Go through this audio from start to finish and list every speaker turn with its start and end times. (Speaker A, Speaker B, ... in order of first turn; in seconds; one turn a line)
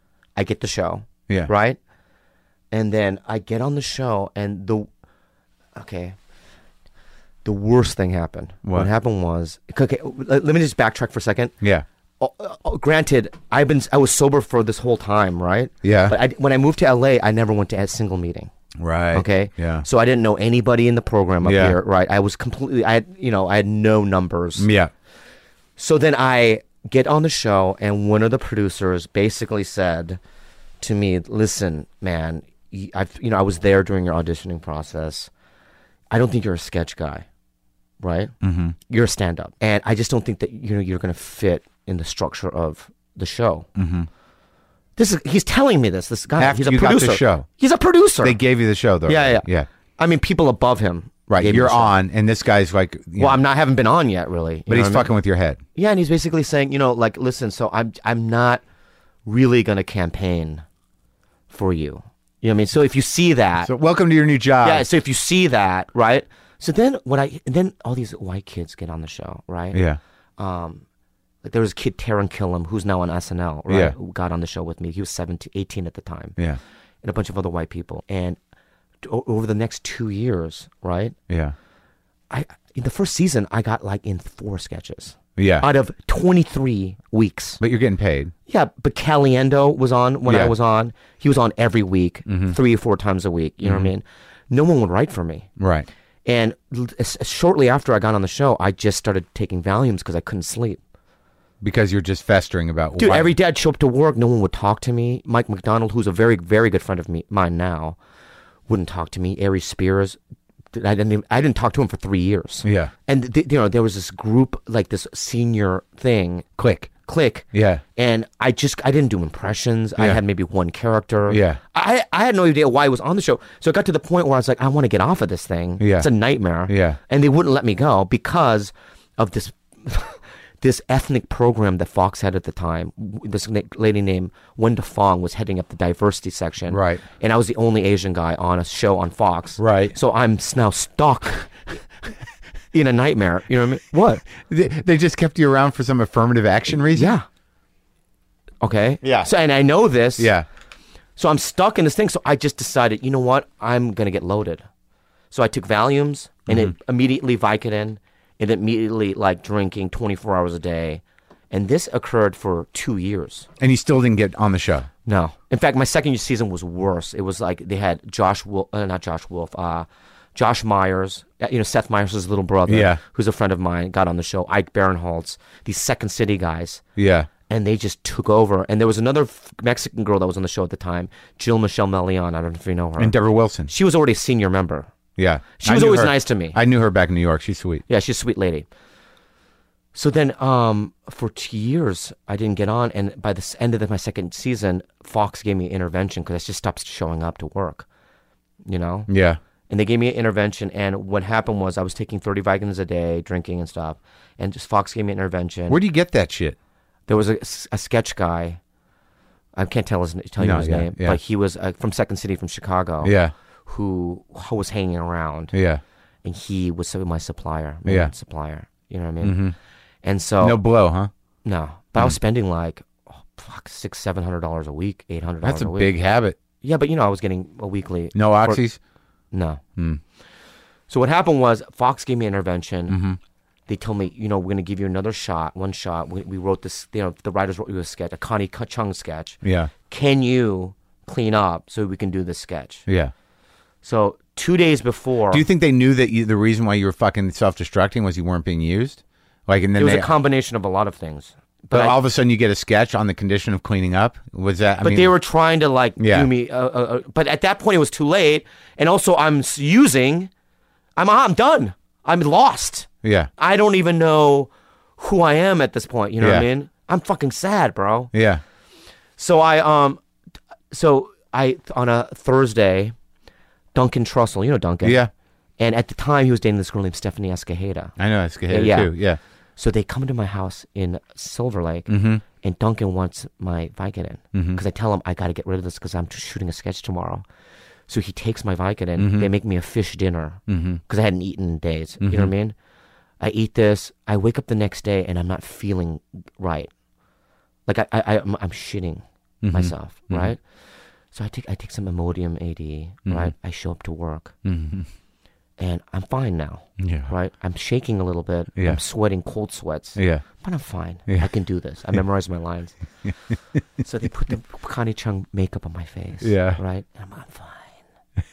Speaker A: 0.3-1.8
Speaker A: 2.7-4.9
Speaker A: 5.7-6.2
Speaker A: 7.4-11.5
Speaker A: 12.2-18.5
Speaker B: 15.8-16.1
Speaker B: 18.8-19.8
Speaker A: 19.1-24.7
Speaker B: 21.4-21.8
Speaker B: 24.6-24.9
Speaker A: 25.8-30.2
Speaker A: 30.8-35.3
Speaker A: 36.1-37.2
Speaker A: 38.0-38.3
Speaker B: 38.4-38.7
Speaker A: 38.8-43.7
Speaker B: 43.8-44.1
Speaker A: 45.0-48.4
Speaker B: 46.4-47.5
Speaker B: 48.2-49.7
Speaker A: 49.0-51.9
Speaker B: 51.3-53.4
Speaker A: 53.2-55.1
Speaker B: 54.7-55.6
Speaker A: 55.7-58.6
Speaker A: 59.2-60.6
Speaker A: 61.5-63.7
Speaker B: 63.6-64.8
Speaker A: 64.6-69.8
Speaker B: 69.7-70.0
Speaker A: 70.4-70.8
Speaker A: 71.4-76.4
Speaker B: 73.7-73.9
Speaker A: 77.0-78.4
Speaker A: 79.0-81.2
Speaker B: 81.3-81.5
Speaker A: 82.3-87.6
Speaker B: 85.4-85.6
Speaker B: 87.6-88.3
Speaker A: 88.5-95.5
Speaker B: 90.2-90.5
Speaker B: 92.3-92.5
Speaker B: 93.6-93.9
Speaker B: 95.6-95.9
Speaker A: 96.2-100.8
Speaker B: 101.6-103.3
Speaker A: 103.0-108.0
Speaker A: 108.7-110.2
Speaker A: 110.7-116.5
Speaker B: 112.6-112.9
Speaker B: 116.6-116.9
Speaker A: 117.0-141.8
Speaker B: 117.5-117.8
Speaker B: 121.3-121.6
Speaker B: 125.8-126.1
Speaker B: 126.7-127.0
Speaker B: 136.7-137.0
Speaker B: 139.6-139.9
Speaker A: 142.7-144.2
Speaker B: 144.4-147.2
Speaker A: 146.9-147.2
Speaker A: 148.6-150.3
Speaker B: 150.2-150.4
Speaker A: 151.2-154.6
Speaker A: 155.3-163.5
Speaker B: 156.5-156.7
Speaker B: 163.6-164.9
Speaker A: 165.1-176.8
Speaker B: 172.7-173.0
Speaker B: 177.0-177.3
Speaker A: 177.5-183.2
Speaker B: 183.0-183.7
Speaker A: 183.7-184.9
Speaker B: 185.2-187.8
Speaker A: 185.6-186.6
Speaker A: 187.9-188.7
Speaker A: 189.9-197.8
Speaker A: 198.7-199.1
Speaker B: 199.1-199.4
Speaker A: 199.7-205.8
Speaker B: 205.7-206.6
Speaker A: 207.1-208.6
Speaker A: 209.6-215.5
Speaker B: 210.4-211.2
Speaker B: 213.0-213.3
Speaker B: 215.5-215.8
Speaker A: 216.2-219.5
Speaker B: 217.8-218.1
Speaker B: 219.2-219.5
Speaker A: 220.0-220.6
Speaker B: 220.4-221.1
Speaker A: 221.4-225.9
Speaker B: 225.4-226.4
Speaker A: 226.6-228.6
Speaker B: 228.1-228.8
Speaker A: 229.3-229.6
Speaker A: 230.9-233.0
Speaker B: 232.9-233.2
Speaker A: 233.7-242.8
Speaker B: 239.4-239.7
Speaker B: 242.9-243.1
Speaker A: 243.8-245.4
Speaker B: 245.3-250.1
Speaker A: 249.8-252.0
Speaker B: 251.7-255.1
Speaker A: 254.8-260.3
Speaker B: 256.0-256.3
Speaker A: 261.0-268.1
Speaker B: 263.0-263.3
Speaker B: 266.2-266.4
Speaker B: 268.1-268.4
Speaker A: 269.2-270.0
Speaker A: 270.7-272.9
Speaker A: 273.7-275.0
Speaker B: 274.8-275.1
Speaker A: 275.6-277.9
Speaker B: 278.0-279.2
Speaker A: 278.5-278.9
Speaker A: 279.6-287.2
Speaker B: 281.9-282.2
Speaker B: 284.3-284.6
Speaker A: 287.9-292.5
Speaker B: 289.0-289.3
Speaker B: 290.5-290.8
Speaker B: 292.0-292.3
Speaker A: 293.2-296.7
Speaker A: 297.7-300.4
Speaker B: 299.4-300.3
Speaker A: 301.1-304.3
Speaker B: 303.1-303.3
Speaker B: 304.4-304.9
Speaker A: 305.6-312.8
Speaker B: 306.8-307.1
Speaker B: 310.0-310.2
Speaker B: 313.0-313.3
Speaker A: 313.8-317.8
Speaker B: 316.2-316.6